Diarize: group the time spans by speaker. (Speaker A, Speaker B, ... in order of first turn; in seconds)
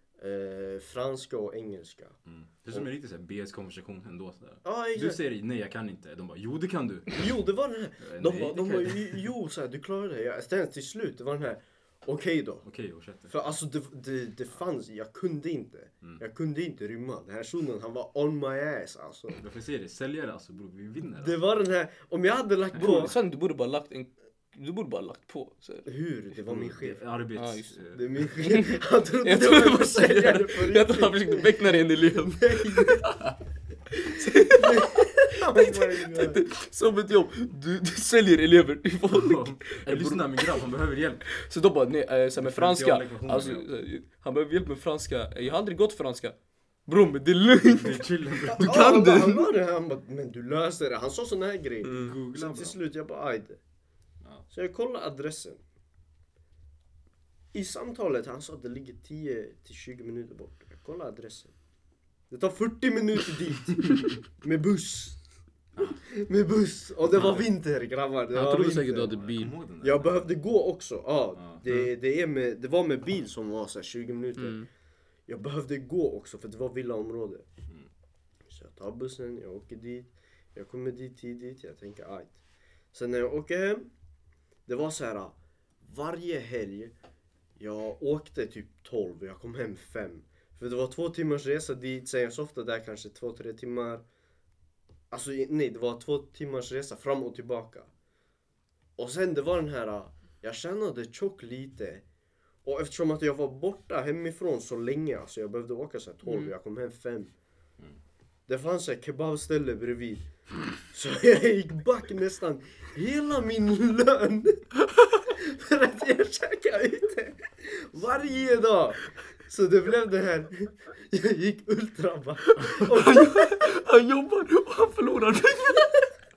Speaker A: 0.2-2.2, 4.6-5.2, 7.1-12.7, 13.3-19.4, 21.2-23.1, 25.9-27.0, 27.9-31.6, 32.2-33.0, 34.5-36.4, 48.5-53.6, 54.5-55.6, 57.5-61.5, 62.3-65.2, 66.0-69.2, 69.8-74.6, 75.3-77.5, 78.5-82.4, 82.9-83.9, 84.7-86.9, 87.6-94.0, 95.1-97.9, 99.0-102.0, 102.6-107.3, 108.5-110.3, 110.9-114.7, 115.3-123.5
Speaker B: 2.2-7.3, 8.0-9.2, 12.6-13.5, 19.3-21.6, 22.7-23.1, 26.4-28.3, 39.1-41.3, 42.4-43.7, 47.7-48.9, 51.9-52.8, 65.8-66.0, 67.1-67.5, 69.1-70.3, 71.4-71.6
Speaker C: 22.7-25.9, 27.4-33.4, 33.9-40.6, 41.3-46.4, 46.9-49.5, 51.8-52.1, 68.3-69.5, 74.4-74.7, 114.8-115.3, 122.4-126.1